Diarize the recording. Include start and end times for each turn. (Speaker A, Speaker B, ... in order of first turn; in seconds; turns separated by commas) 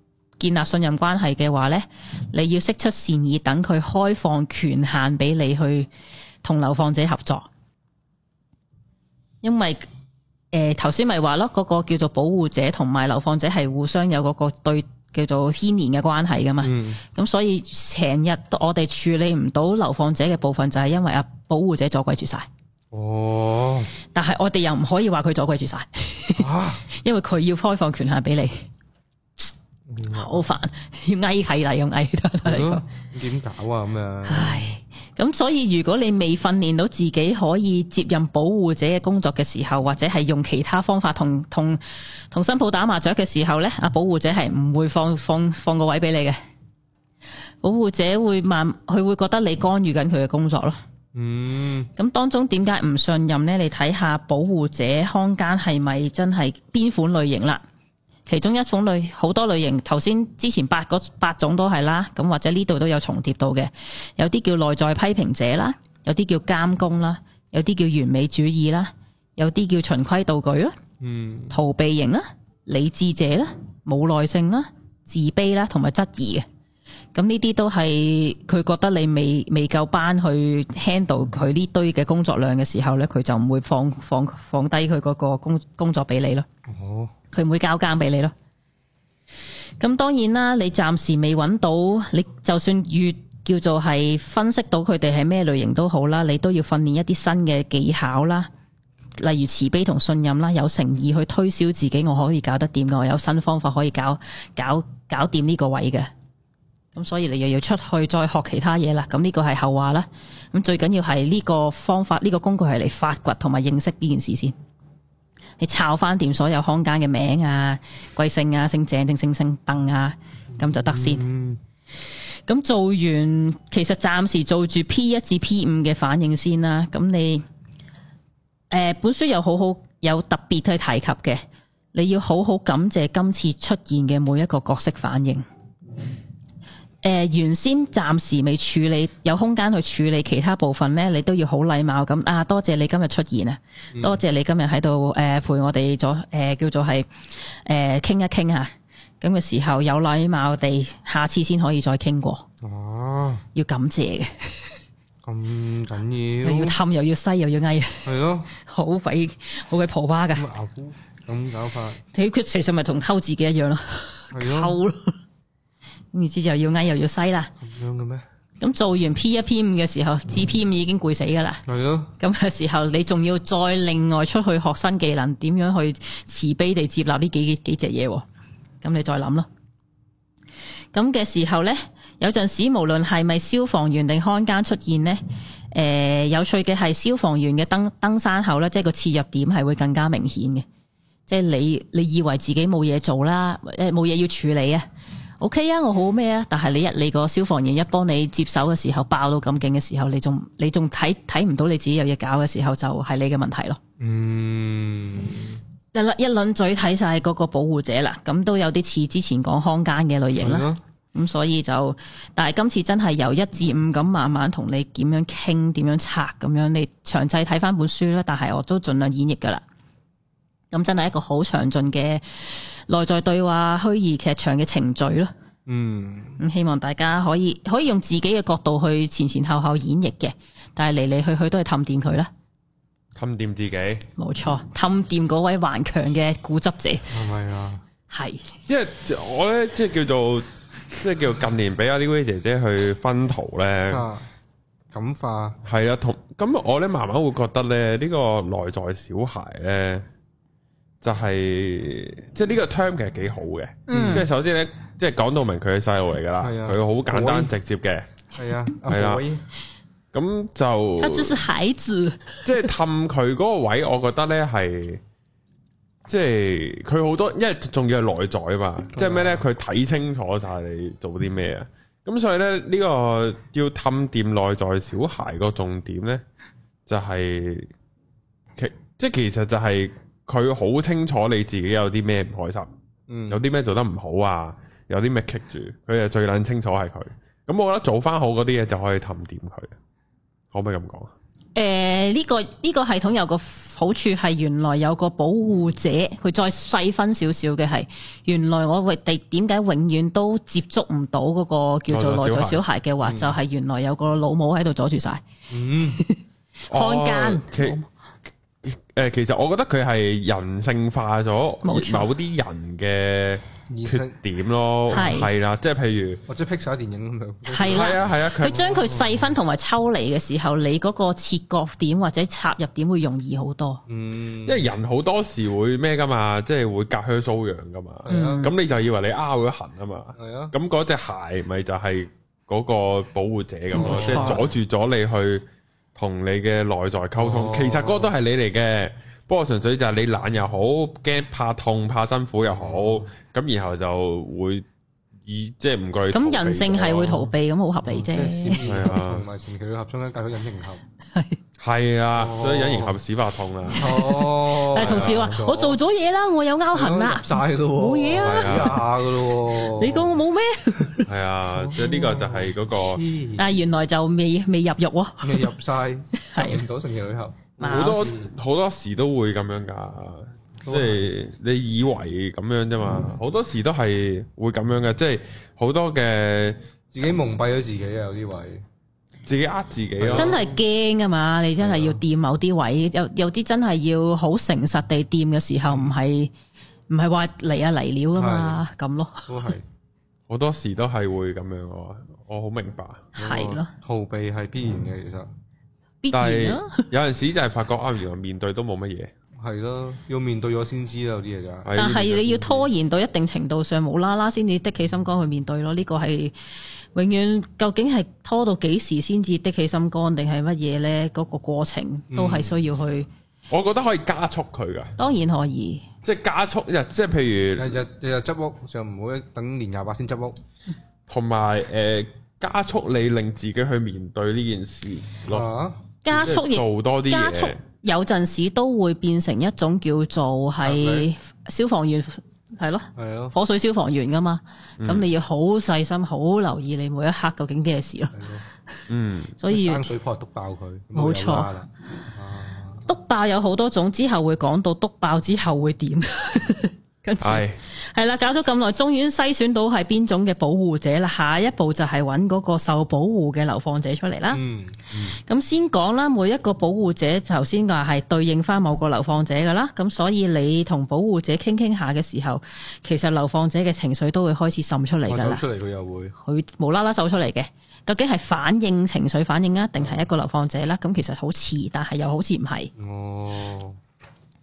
Speaker A: 0.4-5.9, Speaker A: 6.4-7.5, Speaker A: 9.4-9.9, Speaker A: 10.5-22.5, Speaker B: 16.6-17.0, Speaker B: 22.9-23.9, Speaker A: 24.1-28.7, Speaker B: 26.4-26.9, Speaker B: 29.9-30.5, Speaker A: 30.1-32.8, Speaker B: 32.5-34.8, Speaker A: 34.3-46.4, Speaker A: 47.6-50.8, Speaker B: 51.1-51.9, Speaker A: 52.0-57.6, Speaker A: 58.3-70.8, Speaker B: 71.0-71.6, Speaker A: 71.5-76.5, Speaker A: 77.1-86.5, Speaker B: 86.7-87.1, Speaker A: 87.3-88.3, Speaker A: 89.8-98.5, Speaker A: 99.2-106.1, Speaker A: 107.0-114.5, Speaker A: 115.6-121.2, Speaker B: 120.6-121.6, Speaker A: 122.5-127.4, Speaker A: 128.7-131.4, Speaker A: 131.9-135.4, Speaker A: 137.0-147.1, Speaker B: 143.9-144.2, Speaker A: 147.6-152.4, Speaker B: 152.6-153.4, Speaker A: 153.6-154.6, Speaker B: 155.2-156.8, Speaker A: 156.4-160.5, Speaker B: 158.1-158.5, Speaker B: 160.3-162.0, Speaker A: 162.1-165.1, Speaker B: 164.3-164.8, Speaker A: 166.1-167.5, Speaker B: 167.6-168.2, Speaker A: 168.6-171.6, Speaker B: 171.7-172.1, Speaker A: 172.2-178.2, Speaker A: 178.8-179.5, Speaker A: 180.9-185.2, Speaker A: 185.7-190.6, Speaker A: 191.3-194.8, Speaker A: 195.4-203.8, Speaker B: 204.0-205.6, Speaker A: 205.9-219.6, Speaker B: 210.4-210.8, Speaker A: 220.7-225.3, Speaker B: 225.7-226.4, Speaker A: 226.4-232.3, Speaker C: 233.2-234.1, Speaker A: 234.2-237.1, Speaker B: 237.1-237.8, Speaker A: 238.1-238.5, Speaker C: 238.7-244.1, Speaker B: 243.9-244.3, Speaker B: 244.9-245.6, Speaker C: 245.6-250.1, Speaker C: 251.0-258.1, Speaker A: 253.9-254.3, Speaker B: 253.9-254.2, Speaker B: 256.4-257.5, Speaker B: 258.4-259.4, Speaker C: 258.9-259.2, Speaker C: 260.1-261.4, Speaker A: 261.0-262.7, Speaker C: 262.4-265.0, Speaker C: 266.1-276.2, Speaker B: 268.9-269.4, Speaker C: 276.9-277.7, Speaker C: 278.6-282.7, Speaker B: 283.1-283.4, Speaker C: 283.3-289.7, Speaker C: 290.5-291.1, Speaker A: 291.6-305.2, Speaker C: 301.9-302.6, Speaker B: 303.0-303.4, Speaker B: 305.5-306.0, Speaker A: 305.8-306.2, Speaker C: 306.7-307.8, Speaker A: 306.7-307.8, Speaker C: 308.6-316.2, Speaker A: 311.6-312.1, Speaker B: 313.7-314.2, Speaker A: 314.9-315.3, Speaker B: 316.3-319.2, Speaker A: 317.5-323.8, Speaker C: 317.6-318.9, Speaker B: 323.9-324.7, Speaker C: 324.4-344.6, Speaker B: 328.0-328.5, Speaker A: 328.1-328.5, Speaker B: 330.1-330.5, Speaker A: 333.7-334.4, Speaker B: 333.7-334.5, Speaker B: 337.2-338.1, Speaker B: 342.5-343.1, Speaker C: 345.2-347.3, Speaker A: 346.1-348.6, Speaker B: 347.9-350.8, Speaker C: 348.6-349.3, Speaker A: 351.1-351.4, Speaker C: 351.6-354.1, Speaker B: 352.1-353.0, Speaker B: 353.7-355.8, Speaker A: 353.8-358.8, Speaker C: 354.7-355.4, Speaker B: 356.7-360.2, Speaker C: 358.1-358.9, Speaker A: 359.6-361.1, Speaker C: 361.1-363.0, Speaker B: 361.6-363.5, Speaker A: 363.4-365.6, Speaker B: 365.2-368.3, Speaker A: 366.1-366.6, Speaker A: 367.6-368.1, Speaker C: 367.6-376.6, Speaker B: 370.6-371.1, Speaker B: 376.9-378.6, Speaker C: 379.3-380.4, Speaker B: 380.0-380.5, Speaker A: 380.1-386.3, Speaker B: 381.6-382.0, Speaker B: 385.7-385.9, Speaker A: 386.9-389.5, Speaker B: 388.1-388.6, Speaker B: 389.3-389.6, Speaker C: 390.3-393.1, Speaker B: 393.1-395.3, Speaker A: 393.2-393.7, Speaker A: 396.0-396.9, Speaker C: 396.1-399.1, Speaker B: 399.4-401.8, Speaker C: 401.6-402.6, Speaker A: 401.8-406.3, Speaker A: 406.9-413.1, Speaker B: 412.1-412.6, Speaker C: 413.5-414.9, Speaker A: 415.0-415.9, Speaker C: 416.0-417.8, Speaker B: 417.6-420.4, Speaker C: 421.1-425.5, Speaker B: 425.3-425.8, Speaker A: 426.1-438.1, Speaker C: 426.1-427.6, Speaker B: 430.6-431.1, Speaker B: 433.0-433.4, Speaker C: 434.8-435.1, Speaker B: 438.1-438.4, Speaker C: 438.9-439.4, Speaker A: 439.4-439.9, Speaker B: 439.5-442.9, Speaker A: 440.9-441.5, Speaker A: 442.9-454.4, Speaker C: 447.2-447.6, Speaker B: 454.3-455.2, Speaker A: 455.2-465.4, Speaker B: 465.1-466.1, Speaker A: 466.2-472.7, Speaker B: 469.8-470.1, Speaker B: 472.8-473.8